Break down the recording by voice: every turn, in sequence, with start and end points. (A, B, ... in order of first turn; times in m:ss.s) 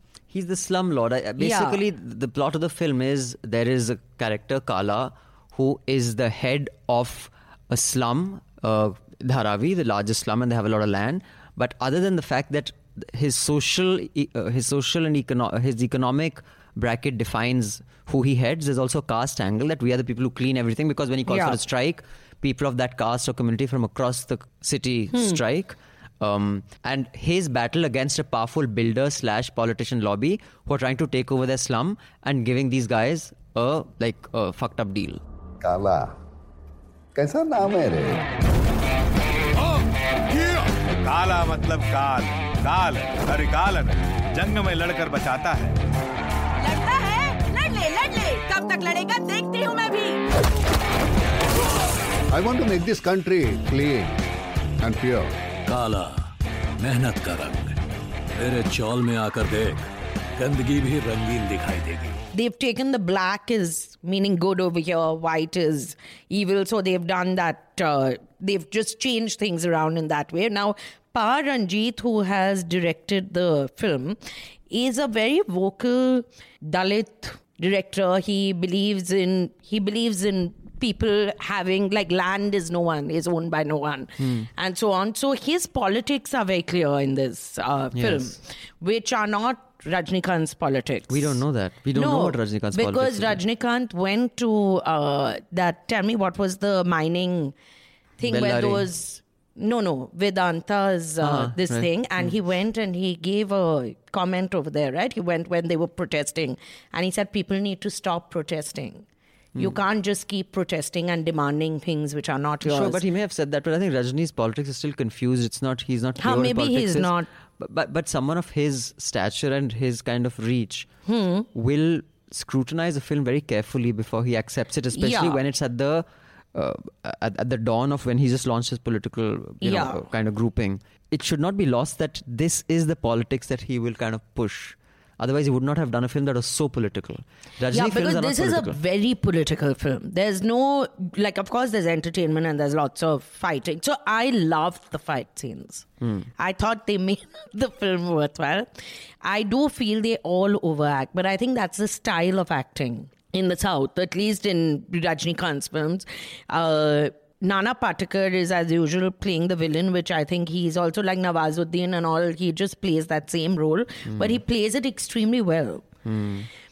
0:00.3-0:35.2 A
0:01.4-0:01.8 B
0:21.3-0:21.6 B
0:25.1-0:25.4 B
0:35.6-0:36.1 C
0:37.2-0:38.2 C
0:40.4-0:45.7 D
0:46.6-0:50.2 E
0:52.3-0:54.1 C
0:54.8-0:55.3 C
0:55.7-0:56.1 F
0:56.8-0:57.8 F
0:58.4-0:59.8 F
1:00.4-1:02.1 F
1:02.3-1:14.2 B
1:14.7-1:31.4 B
1:24.2-1:24.5 A
1:27.9-1:28.3 A
1:31.1-1:33.4 A
1:31.9-1:37.5 B
1:38.2-1:53.0 B
1:38.2-1:38.9 A
1:41.2-1:42.3 A
1:52.6-2:00.9 A
1:56.2-1:57.3 B
2:01.1-2:01.5 B
2:01.5-2:18.8 A
2:05.0-2:05.4 B
2:09.6-2:10.0 B
2:17.7-2:25.9 B
2:26.0-2:26.3 A
2:26.4-2:28.7 B
2:29.2-2:45.9 B
2:44.1-2:44.4 A
2:46.0-2:46.5 A